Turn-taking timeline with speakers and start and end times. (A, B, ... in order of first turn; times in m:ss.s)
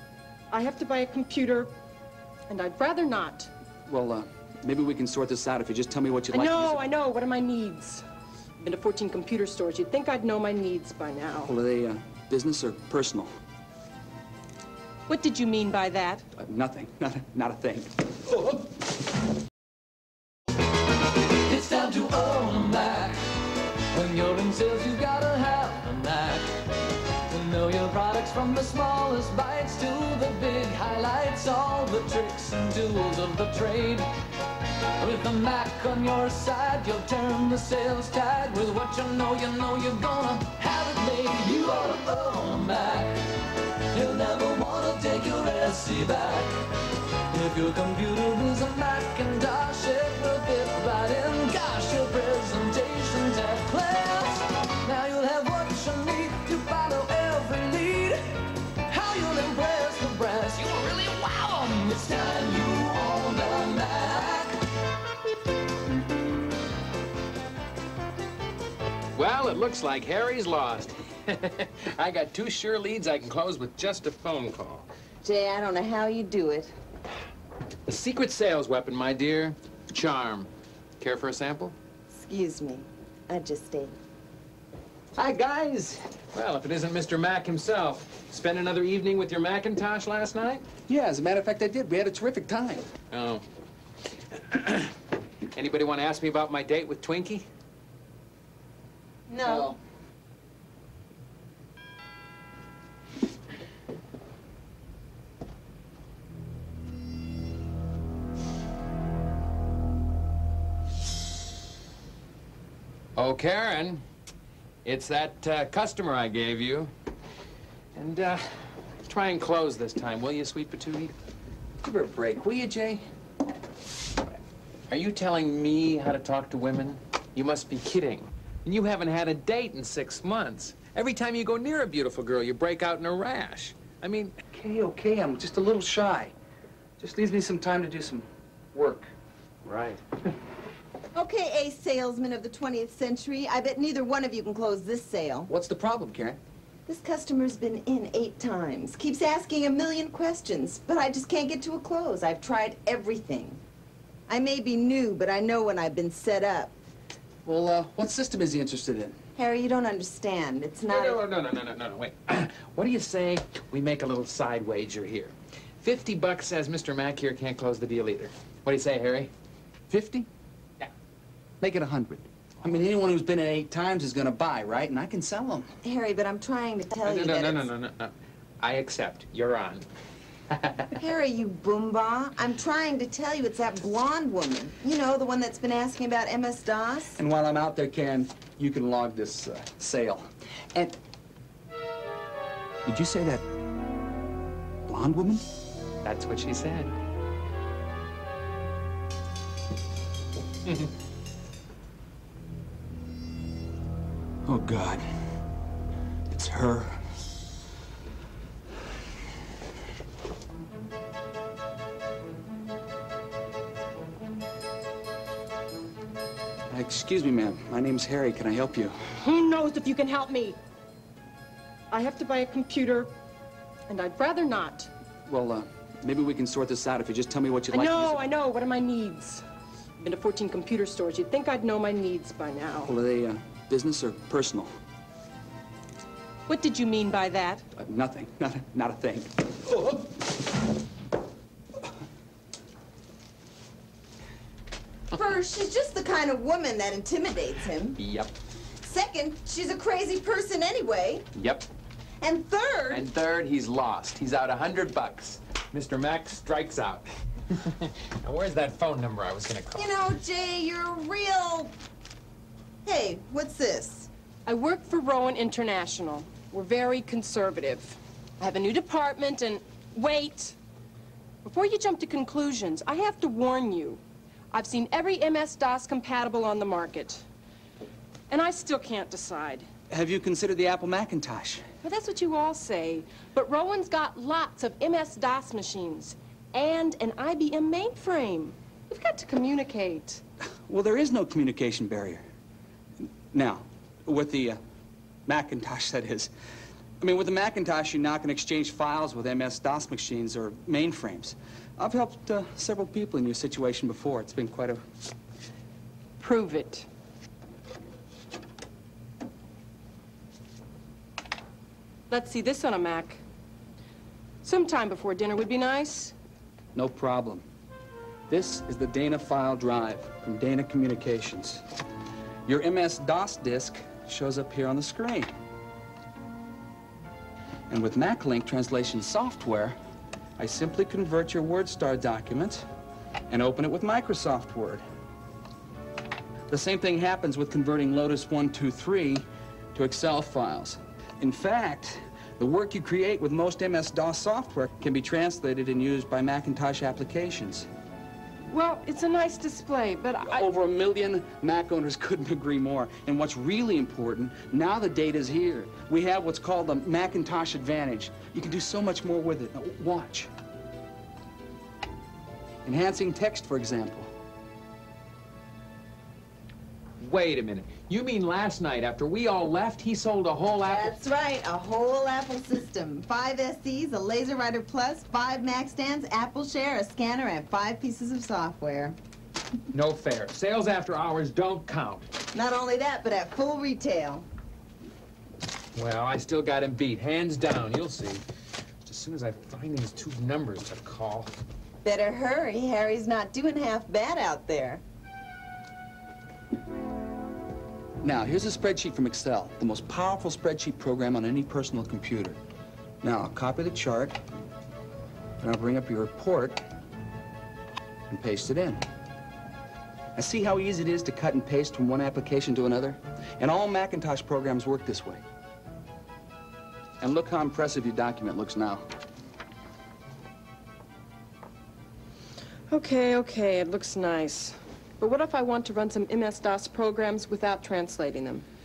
0:00.5-0:01.7 A
0:02.5-0:03.5 A
0:03.9-0:06.9 B
0:06.3-0:08.0 A
0:08.6-0:11.5 A
0:11.4-0:13.3 B
0:15.1-0:16.3 A
0:16.4-0:18.6 B
0:21.4-0:23.4 C
0:23.9-0:26.6 C
0:27.3-0:34.1 C
0:35.0-0:46.7 C
0:47.3-1:00.7 C
1:00.6-1:01.6 D
1:01.4-1:04.6 C
1:09.1-1:14.9 D
1:15.2-1:16.7 E
1:17.9-1:21.7 D
1:22.1-1:23.9 E
1:25.2-1:26.0 B
1:26.3-1:30.6 D
1:30.9-1:32.8 B
1:33.1-1:33.4 D
1:34.3-1:34.9 D
1:35.5-1:37.4 D
1:39.3-1:39.7 E
1:39.4-1:39.7 D
1:53.2-1:54.0 D
1:54.8-1:56.9 D
1:57.9-2:01.1 D
2:01.8-2:03.0 B
2:04.9-2:14.4 D
2:14.5-2:16.3 B
2:17.0-2:19.1 B
2:19.7-2:20.0 B
2:21.1-2:25.5 E
2:25.5-2:26.4 B
2:26.9-2:33.6 E
2:34.3-2:36.7 E
2:37.4-2:39.2 B
2:39.4-2:41.2 E
2:40.9-2:49.3 D
2:49.9-2:50.3 B
2:51.6-2:55.7 B
2:55.8-2:57.7 E
2:57.0-2:59.8 D
3:00.5-3:00.9 D
3:01.0-3:07.2 E
3:07.1-3:11.0 B
3:12.8-3:13.4 B
3:14.9-3:15.4 B
3:16.0-3:16.9 D
3:24.4-3:25.0 B
3:26.3-3:27.0 B
3:36.7-3:39.0 B
3:39.2-3:40.6 A
3:41.9-3:43.1 A
3:43.9-3:44.9 A
3:45.3-3:48.3 B
3:47.7-3:49.4 A
3:50.0-3:52.9 A
3:52.8-3:54.7 B
3:56.5-3:57.6 A
3:57.8-4:00.1 B
4:05.1-4:08.0 E
4:08.0-4:08.3 D
4:08.8-4:11.3 E
4:11.3-4:11.7 D
4:12.2-4:13.1 E
4:12.9-4:19.9 D
4:19.7-4:21.7 E
4:22.8-4:24.1 E
4:24.4-4:30.6 A
4:31.4-4:34.0 A
4:34.5-4:37.2 A
4:38.3-4:39.7 A
4:39.9-4:41.6 B
4:41.8-4:50.2 A
4:50.7-4:52.2 B
4:53.0-4:54.6 B
4:55.3-4:56.3 B
4:57.0-5:04.8 B
5:06.2-5:06.9 A
5:12.1-5:13.2 A
5:14.4-5:16.1 A
5:16.7-5:17.4 B
5:18.3-5:21.6 B
5:22.4-5:25.3 B
5:27.7-5:29.8 B
5:30.4-5:32.6 B
5:33.3-5:34.8 B
5:36.5-5:47.7 B
5:48.5-5:50.5 A
5:50.3-6:00.3 B
6:02.6-6:04.1 B
6:07.0-6:10.9 D
6:10.6-6:19.0 E
6:19.7-6:22.1 D
6:22.3-6:24.2 E
6:25.7-6:28.2 D
6:28.8-6:31.3 D
6:31.8-6:34.8 E
6:38.0-6:42.4 B
6:43.0-6:44.2 B
6:45.4-6:46.6 B
6:48.1-6:48.8 B
6:50.2-6:55.2 B
6:57.0-6:58.8 B
7:02.7-7:08.4 A